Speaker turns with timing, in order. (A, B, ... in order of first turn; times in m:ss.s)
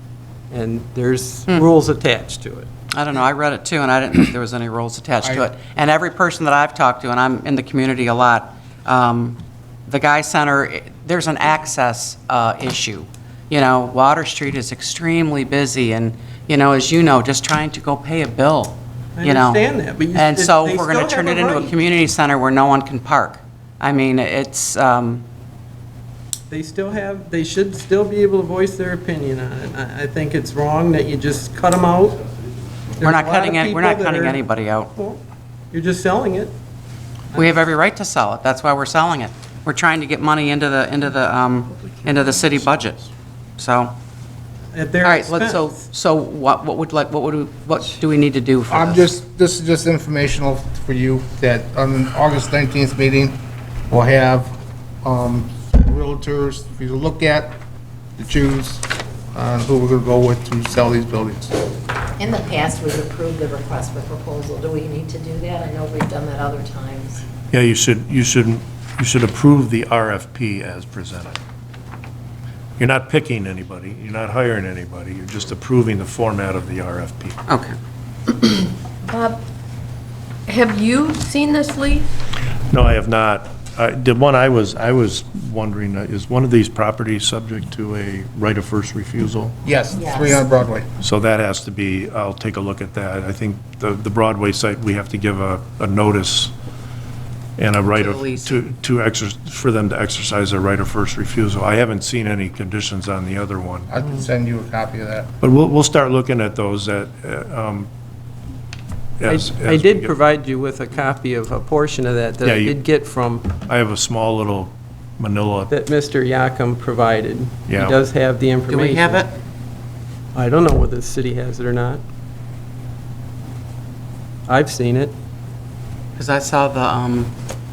0:00.5-0:02.7 A
0:02.9-0:19.6 B
0:19.2-0:21.8 A
0:20.1-0:25.2 B
0:26.5-0:32.2 A
0:33.0-0:35.2 A
0:33.0-0:34.9 B
0:35.7-0:36.5 A
0:37.3-0:43.1 B
0:43.6-0:43.9 B
0:44.7-0:45.8 A
0:45.0-0:49.1 B
0:48.7-0:53.4 C
0:53.9-0:57.6 C
0:58.2-1:01.6 C
1:02.2-1:07.2 D
1:07.5-1:11.4 E
1:12.8-1:17.4 E
1:17.5-1:17.7 B
1:19.0-1:19.4 F
1:20.5-1:22.1 F
1:22.7-1:29.5 E
1:29.6-1:30.9 C
1:30.0-1:30.4 D
1:31.0-1:36.5 E
1:37.6-1:43.9 E
1:38.0-1:38.6 B
1:43.9-1:45.3 C
1:45.4-1:47.9 E
1:49.2-1:50.1 E
1:49.3-1:53.5 A
1:52.4-1:52.8 E
1:53.6-1:55.7 E
1:55.7-1:59.3 A
1:57.7-1:58.0 E
1:58.7-1:59.3 B
2:00.3-2:02.0 A
2:04.5-2:05.1 A
2:06.2-2:07.3 B